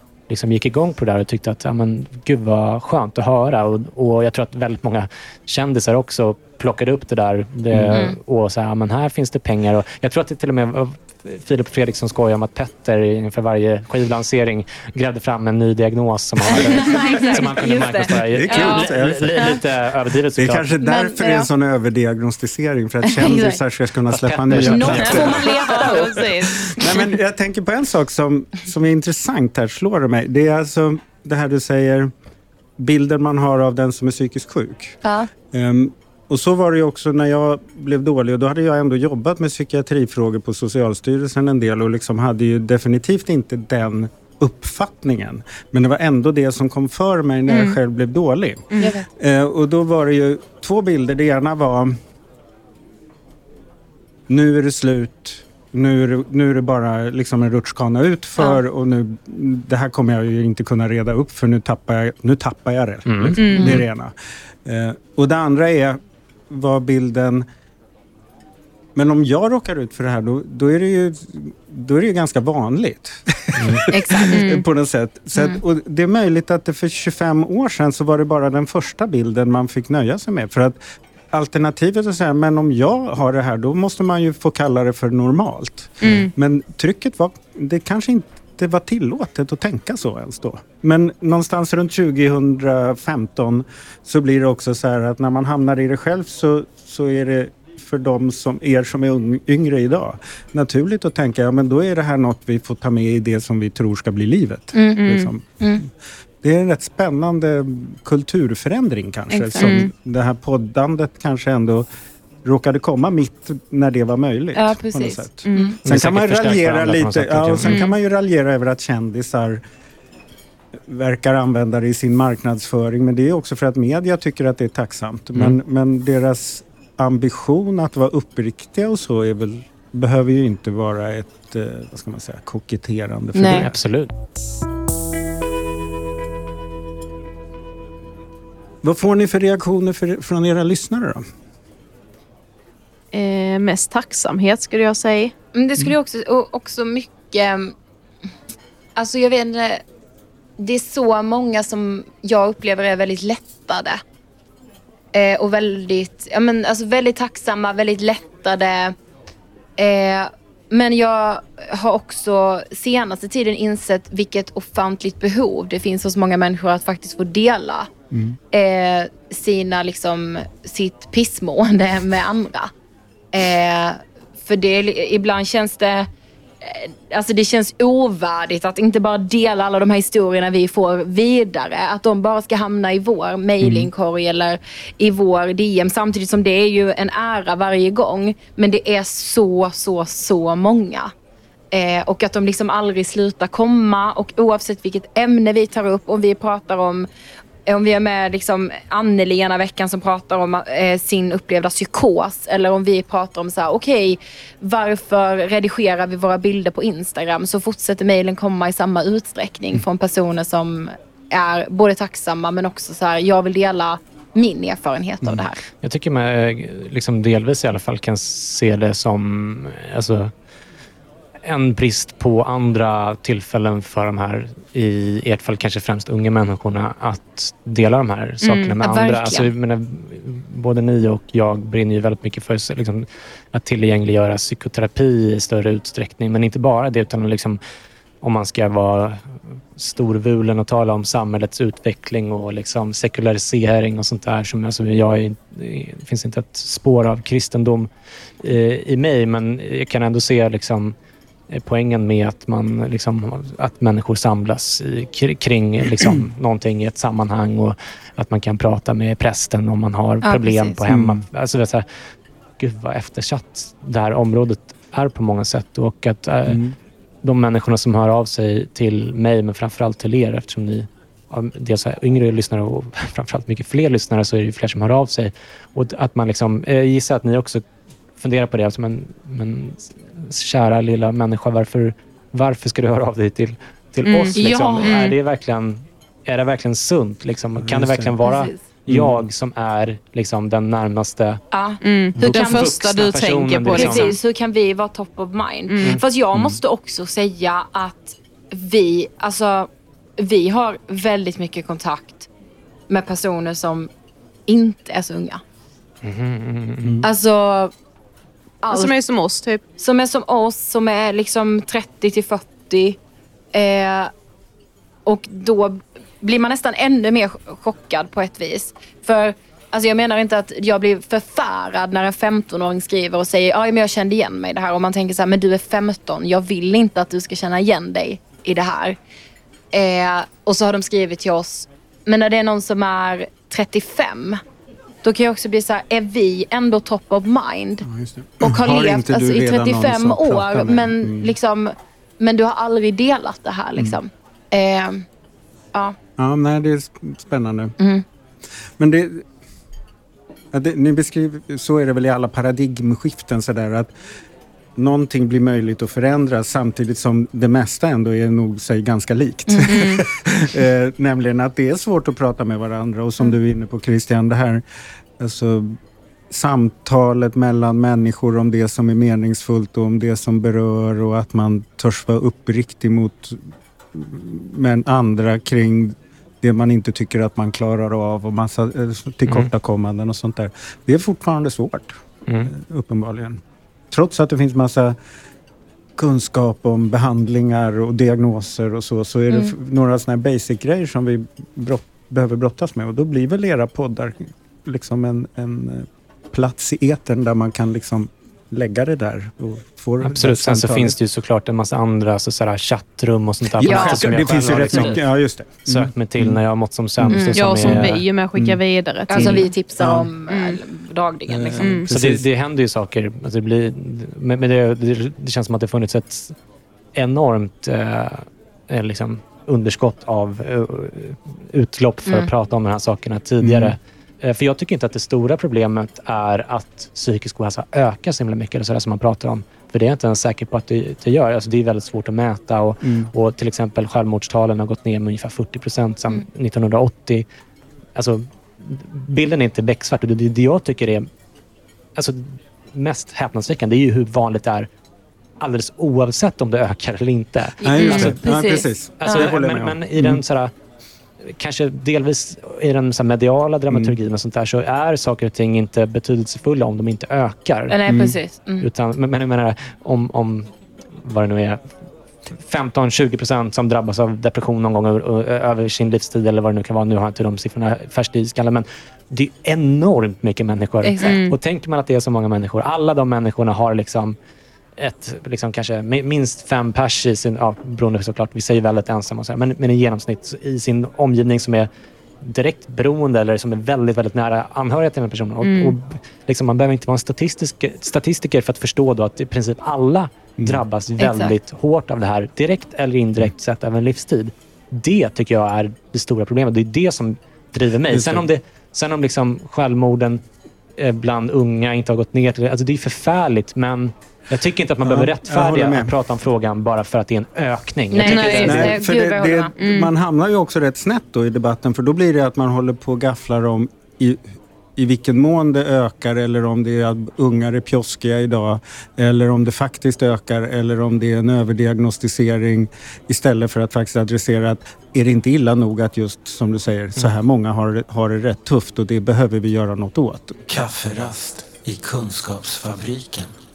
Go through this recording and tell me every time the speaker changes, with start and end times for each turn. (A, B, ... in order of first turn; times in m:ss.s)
0:00.3-0:20.7 A
0:07.7-0:08.1 B
0:16.5-0:18.8 C
0:17.9-0:19.6 B
0:18.5-0:18.8 D
0:20.4-0:32.1 B
0:20.8-0:21.5 C
0:23.1-0:23.6 C
0:24.1-0:25.5 A
0:24.6-0:27.0 C
0:25.1-0:27.1 D
0:32.8-0:35.0 B
0:35.0-0:35.3 C
0:35.5-0:52.0 B
0:47.5-0:47.8 D
0:48.7-0:49.0 D
0:48.8-0:49.0 C
0:54.3-1:04.1 B
1:03.1-1:03.4 A
1:03.4-1:03.8 D
1:03.5-1:03.8 C
1:04.6-1:06.0 B
1:06.5-1:07.5 B
1:09.0-1:20.8 B
1:13.6-1:13.8 A
1:13.9-1:14.4 C
1:14.2-1:14.6 D
1:21.3-1:45.9 B
1:26.0-1:26.3 D
1:44.7-1:45.1 C
1:45.0-1:45.3 D
1:46.4-1:51.9 B
1:49.3-1:49.8 C
1:49.6-1:49.9 D
1:52.4-1:59.6 B
1:54.6-1:55.8 C
1:55.4-1:55.8 D
1:55.8-1:57.8 A
1:57.6-1:57.9 D
2:00.8-2:13.7 B
2:13.4-2:13.7 C
2:13.5-2:14.1 A
2:18.8-2:21.2 B
2:23.1-2:25.3 D
2:25.6-2:27.7 C
2:29.0-2:29.8 C
2:30.6-2:34.0 C
2:35.1-2:39.0 C
2:39.8-2:47.9 C
2:48.1-2:48.4 B
2:48.5-2:52.7 C
2:53.3-2:56.1 C
2:56.6-3:11.1 C
3:03.6-3:03.9 B
3:11.7-3:17.1 C
3:17.7-3:35.6 C
3:35.8-3:40.3 A
3:41.4-3:57.6 A
3:48.4-3:48.8 D
3:48.8-3:49.5 C
3:58.2-4:07.9 A
4:08.4-4:11.0 A
4:11.5-4:21.9 A
4:20.2-4:20.8 C
4:20.9-4:21.2 B
4:22.6-4:26.6 A
4:26.5-4:26.8 B
4:27.2-4:37.6 A
4:38.2-4:51.4 A
4:44.0-4:45.1 D
4:44.3-4:45.1 C
4:47.6-4:48.2 B
4:48.2-4:48.6 C
4:48.9-4:49.2 B
4:51.5-4:52.8 C
4:51.8-4:54.2 D
4:52.2-4:54.2 A
4:53.7-5:02.3 C
4:55.7-4:56.0 D
5:02.9-5:03.9 C
5:04.5-5:05.4 C
5:06.0-5:07.0 A
5:06.8-5:07.1 B
5:07.0-5:07.7 C
5:08.6-5:08.9 C
5:08.7-5:09.6 D
5:09.8-5:13.0 C
5:13.5-5:14.1 C
5:15.1-5:29.0 C
5:29.7-5:34.4 C
5:35.0-5:37.9 C
5:37.8-5:41.3 B
5:38.4-5:45.0 C
5:46.2-5:47.8 B
5:48.8-5:49.2 B
5:50.5-5:53.9 B
5:54.8-6:04.6 B
5:59.5-5:59.8 C
5:59.6-6:00.1 D
6:05.2-6:05.8 B
6:06.3-6:13.4 B
6:13.9-6:25.0 B
6:26.0-6:41.0 B
6:40.0-6:45.0 A
6:43.6-6:46.4 B
6:43.6-6:45.0 C
6:45.6-6:48.0 A
6:47.0-6:48.6 B
6:47.1-6:47.4 C
6:47.4-6:49.5 D
6:49.1-6:51.8 C
6:49.2-6:49.4 A
6:49.2-6:50.1 B
6:50.3-6:50.6 D
6:51.3-6:52.2 B
6:51.6-6:51.9 D
6:51.9-6:56.4 A
6:57.0-7:17.3 A
7:03.4-7:03.8 B
7:12.8-7:13.1 B
7:18.0-7:21.1 A
7:22.0-7:24.7 A
7:25.4-7:28.2 A
7:27.6-7:29.3 C
7:27.6-7:30.2 B
7:29.0-7:30.5 A
7:31.2-7:37.8 A
7:37.7-7:38.7 C
7:37.9-7:38.2 B
7:38.6-7:40.5 A
7:41.0-7:41.6 A
7:42.3-7:54.2 A
7:50.8-7:51.2 C
7:51.0-7:51.4 D
7:54.8-8:01.7 A
8:02.2-8:20.2 A
8:05.4-8:05.7 D
8:11.0-8:11.3 C
8:17.9-8:18.2 B
8:20.8-8:28.8 A
8:24.8-8:25.9 B
8:27.9-8:29.5 C
8:28.0-8:28.7 D
8:28.4-8:50.4 B
8:29.6-8:29.9 D
8:50.5-8:53.3 E